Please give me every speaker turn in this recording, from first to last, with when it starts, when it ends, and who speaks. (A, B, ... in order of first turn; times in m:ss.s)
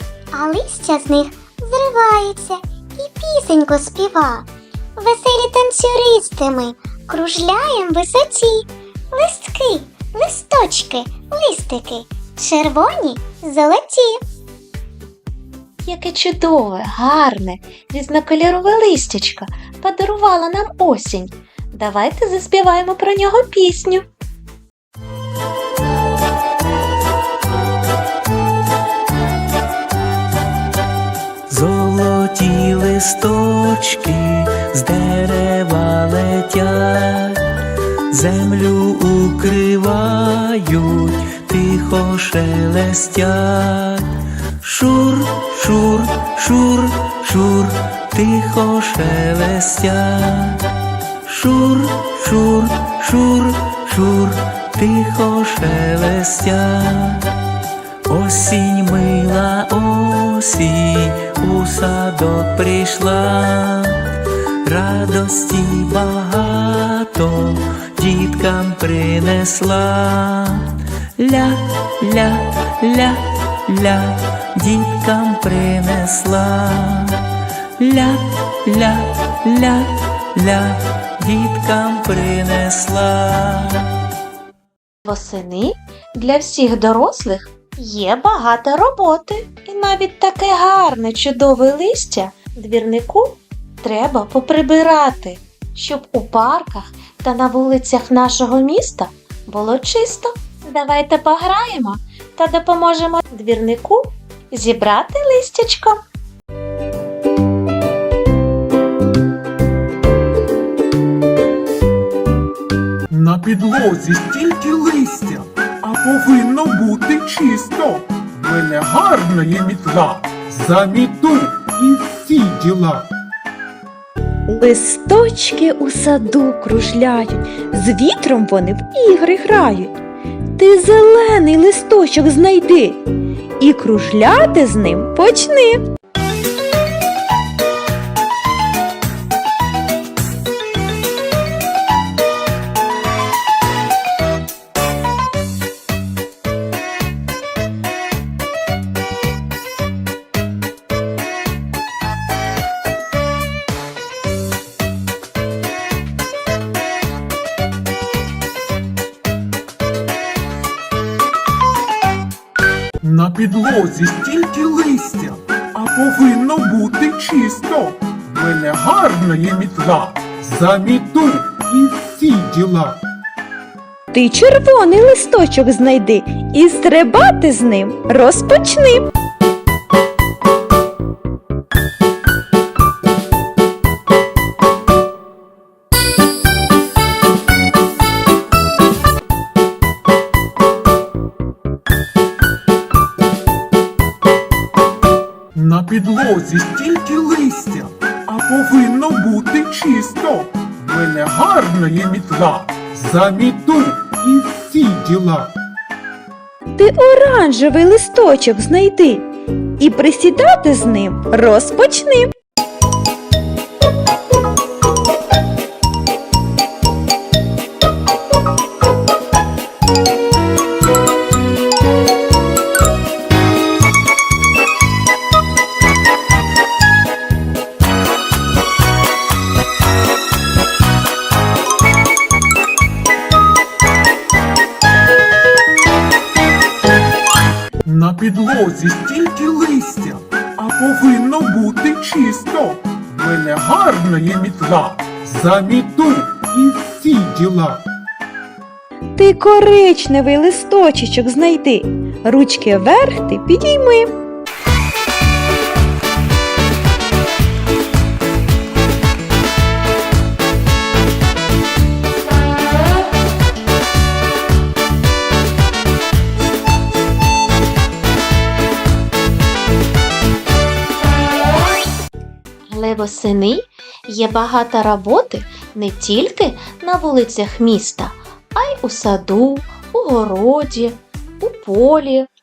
0:00.3-0:14.2 A
0:15.8-0:24.0 B
0:31.5-0:37.4 C
0:38.1-0:44.1 C
0:44.6-0:50.6 C
0:51.3-0:57.2 C
0:58.1-1:03.9 C
1:04.7-1:17.2 C
1:17.8-1:23.8 C
1:25.0-1:46.0 B
1:53.1-2:03.1 D
2:04.5-2:10.0 E
2:10.6-2:13.0 E
2:13.6-2:15.8 E
2:43.0-2:53.0 D
2:54.1-2:59.1 E
3:15.6-3:25.5 D
3:26.8-3:29.3 E
3:29.8-3:32.3 E
3:57.8-4:07.8 D
4:09.2-4:14.1 E
4:32.7-4:42.3 B